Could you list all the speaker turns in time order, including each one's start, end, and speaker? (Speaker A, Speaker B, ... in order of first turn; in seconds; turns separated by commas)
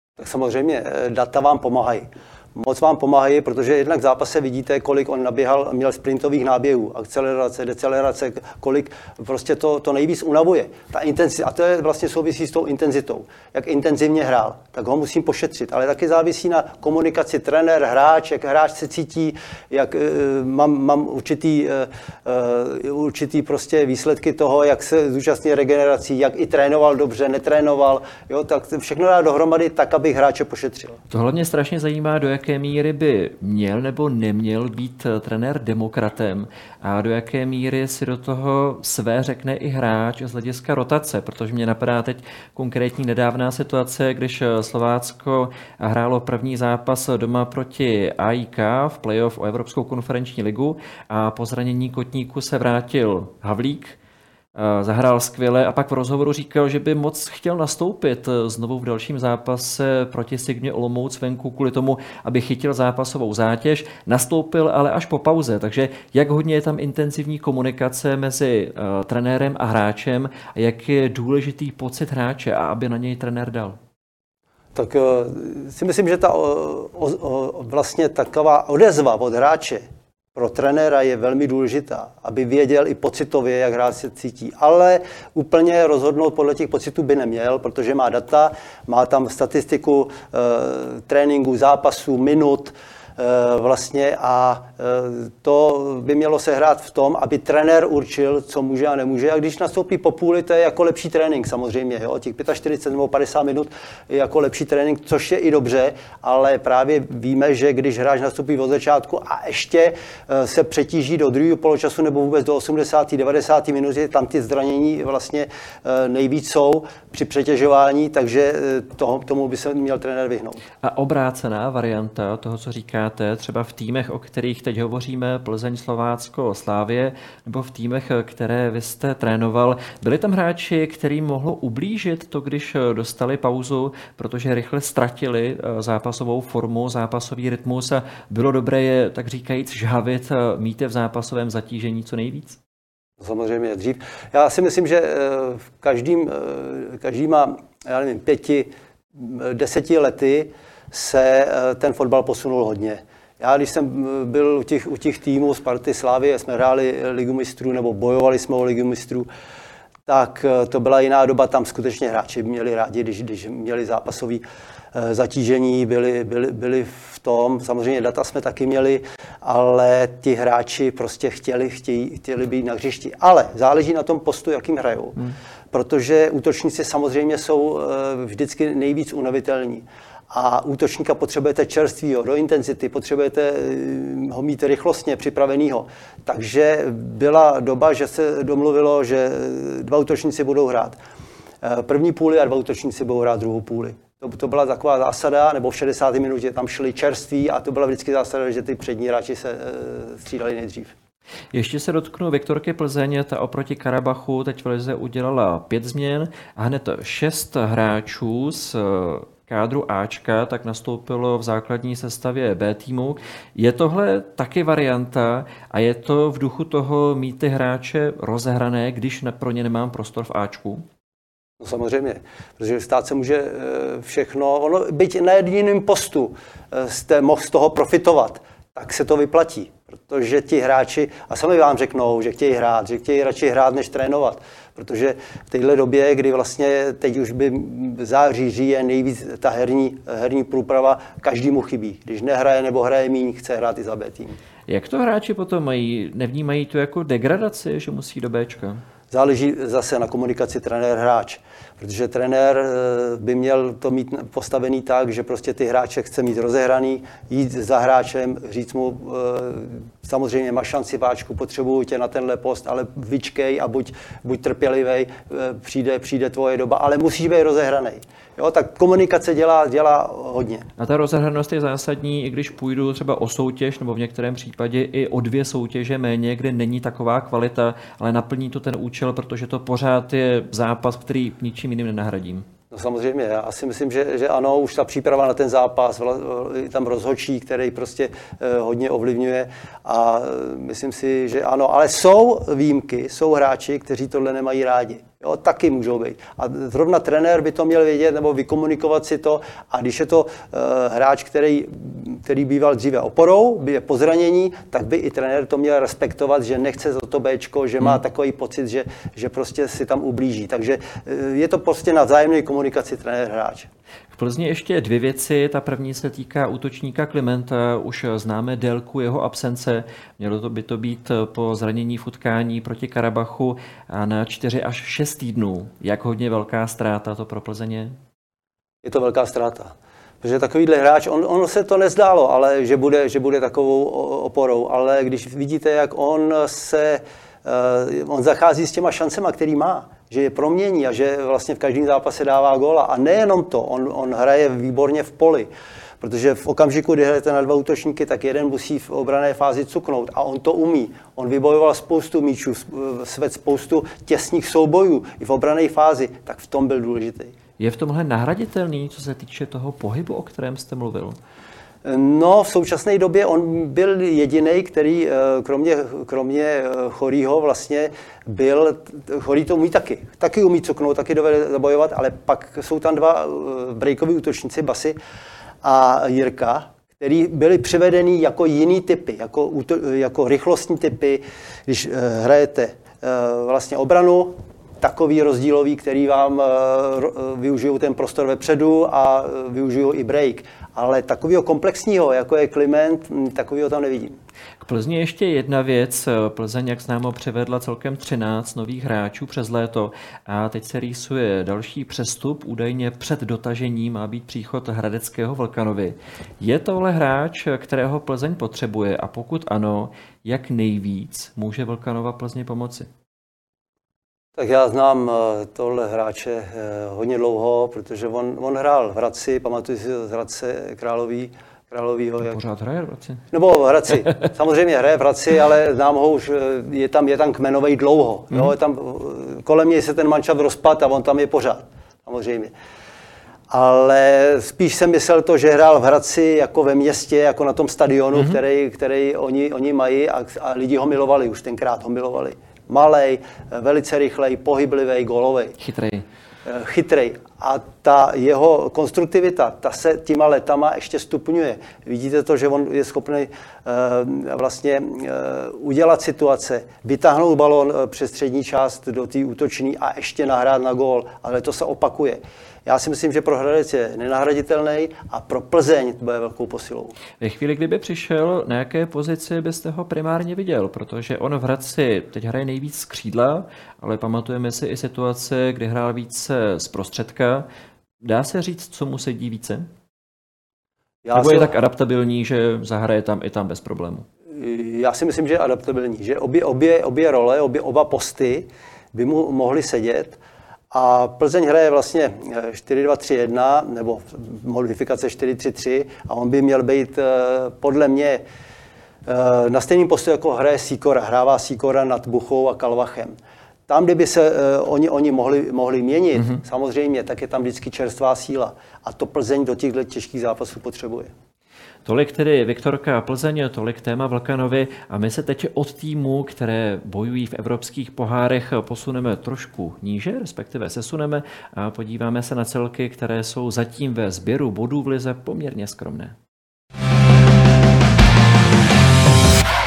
Speaker A: 0.2-31.0, Speaker B: 31.1-54.0, Speaker B: 54.5-73.8, Speaker A: 74.7-120.6, Speaker B: 120.8-142.6, Speaker A: 143.2-159.3, Speaker A: 160.1-175.2, Speaker A: 175.7-191.0, Speaker A: 191.6-200.9, Speaker B: 201.5-220.8, Speaker A: 221.6-244.4, Speaker B: 244.7-248.8, Speaker A: 249.1-270.7, Speaker B: 270.8-282.4, Speaker A: 282.7-313.7, Speaker B: 314.1-327.9, Speaker A: 328.8-345.5, Speaker A: 346.0-357.3, Speaker B: 357.6-361.2, Speaker A: 361.8-375.0, Speaker A: 375.6-394.1, Speaker B: 394.6-412.9, Speaker A: 414.4-422.4, Speaker B: 422.2-423.2, Speaker A: 423.3-432.5, Speaker A: 433.5-445.6, Speaker B: 445.6-446.0, Speaker A: 446.4-466.9, Speaker B: 467.2-477.5, Speaker B: 478.0-479.7, Speaker A: 481.0-481.5, Speaker B: 481.1-484.0, Speaker A: 484.3-490.2, Speaker A: 490.7-498.2, Speaker A: 499.1-503.1, Speaker A: 503.7-511.1, Speaker B: 511.8-526.1